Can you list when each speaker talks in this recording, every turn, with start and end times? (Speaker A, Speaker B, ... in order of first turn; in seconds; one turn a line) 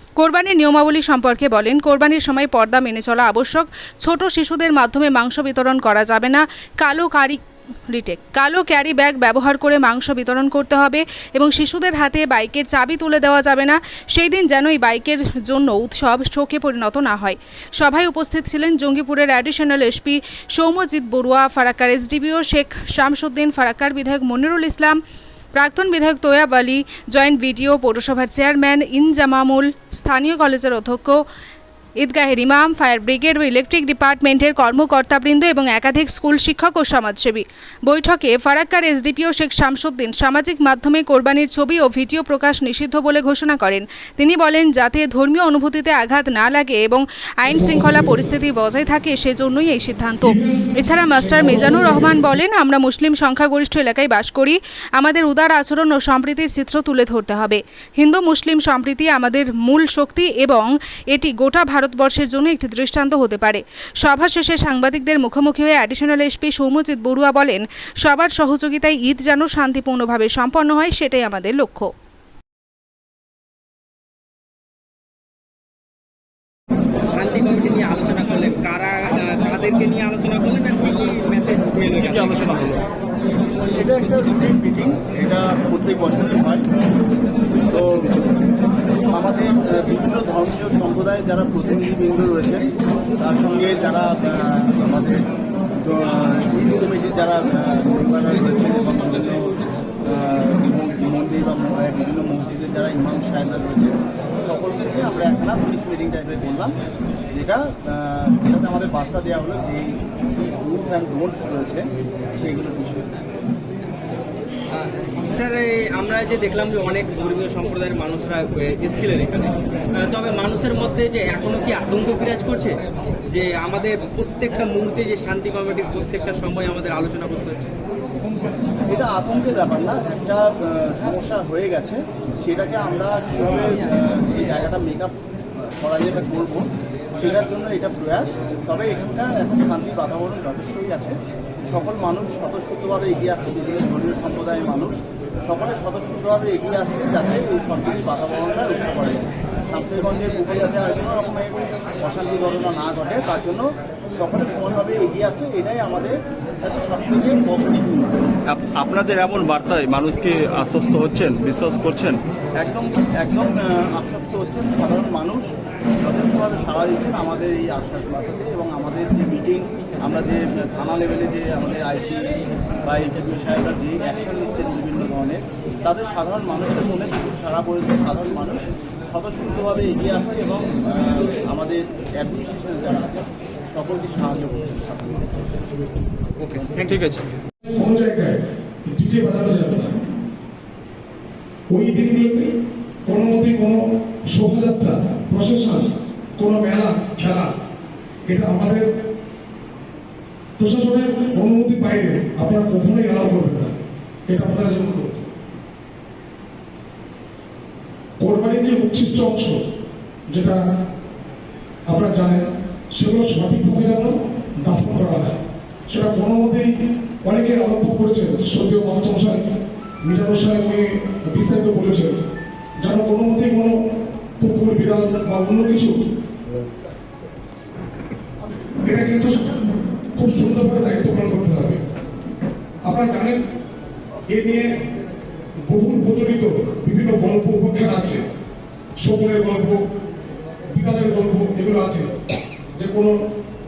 Speaker A: 0.2-25.0
Speaker A: 25.6-31.2
Speaker A: 32.0-71.9
Speaker B: 50.3-50.6
Speaker B: 51.3-52.0
Speaker C: 77.0-82.7
Speaker D: 82.0-82.8
Speaker E: 83.7-86.7
Speaker E: 87.7-88.2
Speaker E: 89.1-95.3
Speaker E: 95.8-99.5
Speaker E: 100.0-106.8
Speaker E: 107.3-113.1
Speaker C: 114.7-127.8
Speaker E: 128.9-135.2
Speaker E: 135.8-158.2
Speaker D: 158.5-162.2
Speaker E: 162.6-165.4
Speaker E: 166.0-185.7
Speaker D: 186.5-187.3
Speaker B: 187.6-190.0
Speaker B: 191.7-192.5
Speaker B: 193.1-197.5
Speaker B: 198.3-198.9
Speaker B: 200.6-203.8
Speaker B: 204.3-205.2
Speaker B: 208.2-209.7
Speaker B: 210.3-210.6
Speaker B: 211.9-219.4
Speaker B: 220.0-222.3
Speaker B: 222.8-223.8
Speaker B: 224.4-226.1
Speaker B: 228.8-231.8
Speaker B: 232.8-233.4
Speaker B: 234.3-234.8
Speaker B: 235.7-238.2
Speaker B: 239.0-239.8
Speaker B: 240.7-242.1
Speaker B: 242.8-243.2